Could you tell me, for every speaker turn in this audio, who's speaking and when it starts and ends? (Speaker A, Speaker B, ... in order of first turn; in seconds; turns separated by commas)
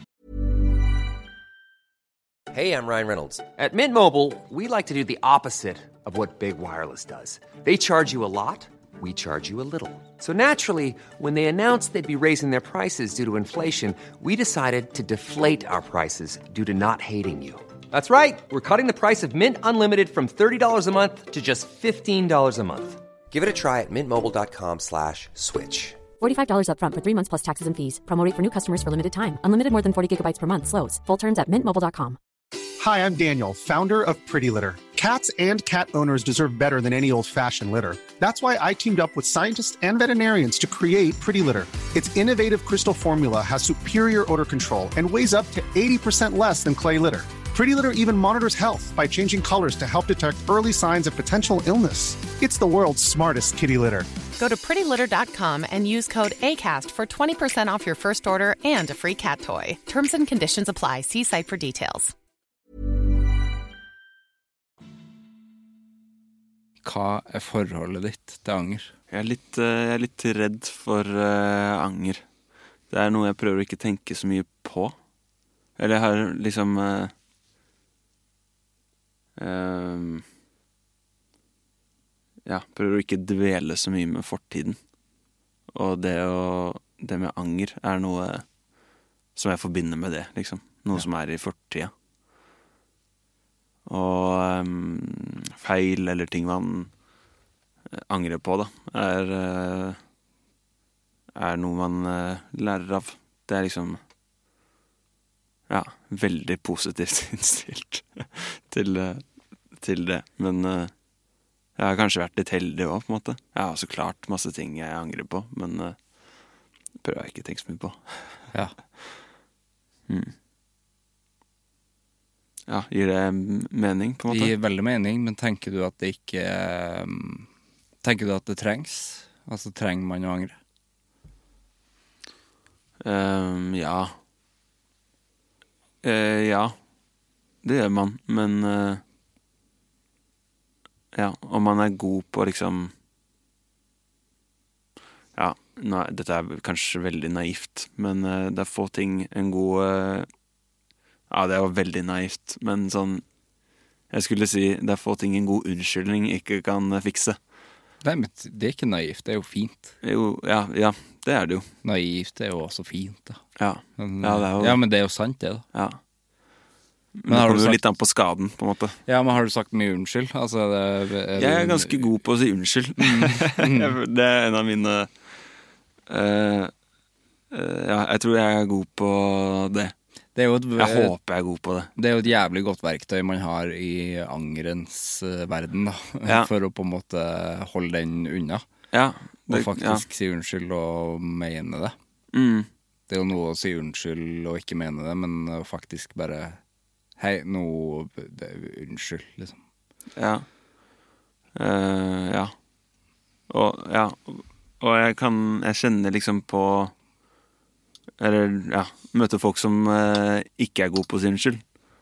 Speaker A: 2.5-26.0, Speaker B: 26.2-32.2, Speaker C: 32.8-54.1, Speaker D: 54.4-62.1, Speaker E: 66.8-68.9, Speaker F: 69.1-72.2, Speaker F: 72.9-75.0, Speaker F: 75.8-77.1, Speaker F: 79.4-80.2, Speaker F: 82.5-84.8, Speaker F: 85.7-88.4, Speaker F: 89.4-91.9, Speaker F: 93.9-96.9, Speaker F: 97.9-100.0, Speaker F: 101.4-104.0, Speaker F: 105.7-109.2, Speaker F: 109.8-110.9, Speaker F: 111.8-116.0, Speaker F: 117.0-118.4, Speaker F: 120.1-120.3, Speaker F: 122.7-124.5, Speaker E: 124.3-127.5, Speaker E: 128.0-130.6, Speaker F: 133.0-134.1, Speaker F: 136.0-136.8, Speaker F: 137.6-139.0, Speaker F: 141.1-142.9, Speaker F: 145.4-150.3, Speaker F: 151.3-153.2, Speaker F: 154.1-157.4, Speaker E: 158.0-159.9, Speaker F: 160.0-161.7, Speaker E: 161.8-163.4, Speaker F: 163.6-164.8, Speaker E: 164.0-165.6, Speaker F: 165.7-166.0, Speaker F: 167.2-169.0, Speaker E: 167.3-167.8, Speaker E: 169.1-172.0, Speaker F: 171.4-175.1, Speaker E: 173.0-174.0, Speaker F: 176.1-176.7, Speaker F: 177.5-179.9, Speaker E: 180.4-181.1, Speaker F: 180.8-181.9, Speaker E: 182.0-188.6, Speaker F: 188.9-190.0, Speaker E: 189.5-191.9, Speaker F: 192.3-192.7, Speaker E: 193.1-196.6, Speaker E: 197.2-199.6, Speaker F: 200.2-200.5, Speaker F: 201.6-202.5, Speaker F: 203.5-206.9, Speaker F: 208.2-211.6